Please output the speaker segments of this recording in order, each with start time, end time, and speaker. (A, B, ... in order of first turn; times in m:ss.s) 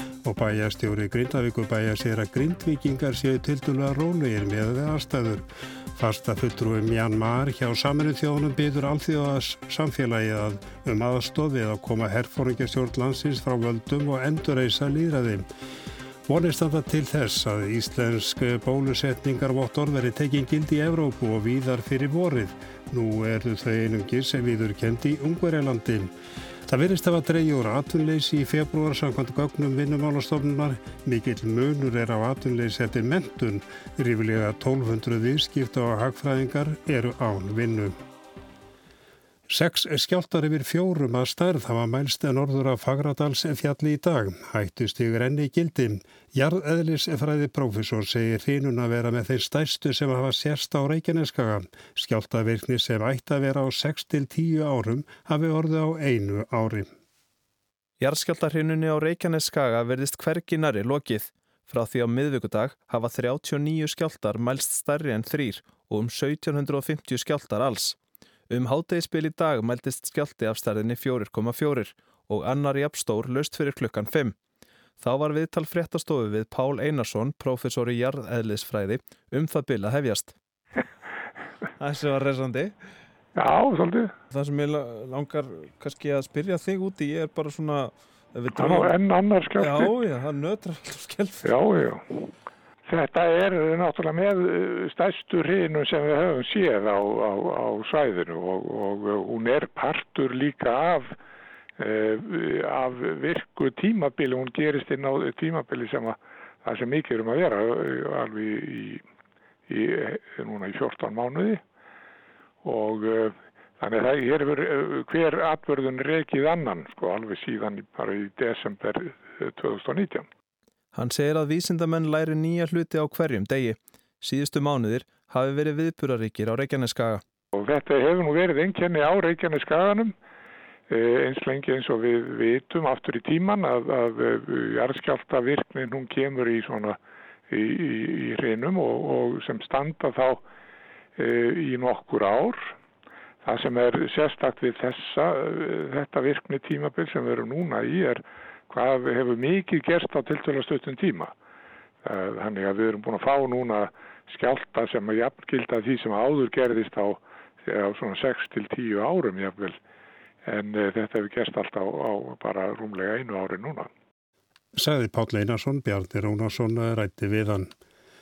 0:00.2-0:05.4 A
0:06.0-0:15.5 A
0:16.3-0:26.1 A
0:26.7-0:38.0 A
0:39.5-0:56.9 A
0:58.0-1:08.0 B
1:08.5-1:14.4 B
1:15.0-1:20.4 B
1:21.8-1:22.7 B
1:23.4-1:24.1 C
1:24.3-1:29.0 B
1:28.6-1:30.0 C
1:29.6-1:31.5 B
1:31.4-1:32.0 C
1:32.9-1:41.2 C
1:41.8-1:49.0 C
1:49.7-1:51.6 C
1:52.6-2:00.3 C
2:00.9-2:07.2 B
2:07.5-2:10.2 C
2:10.9-2:17.0 C
2:17.5-2:20.4 C
2:21.2-2:22.7 C
2:23.4-2:31.3 C
2:32.0-2:39.8 C
2:40.4-2:43.9 C
2:44.8-2:47.7 A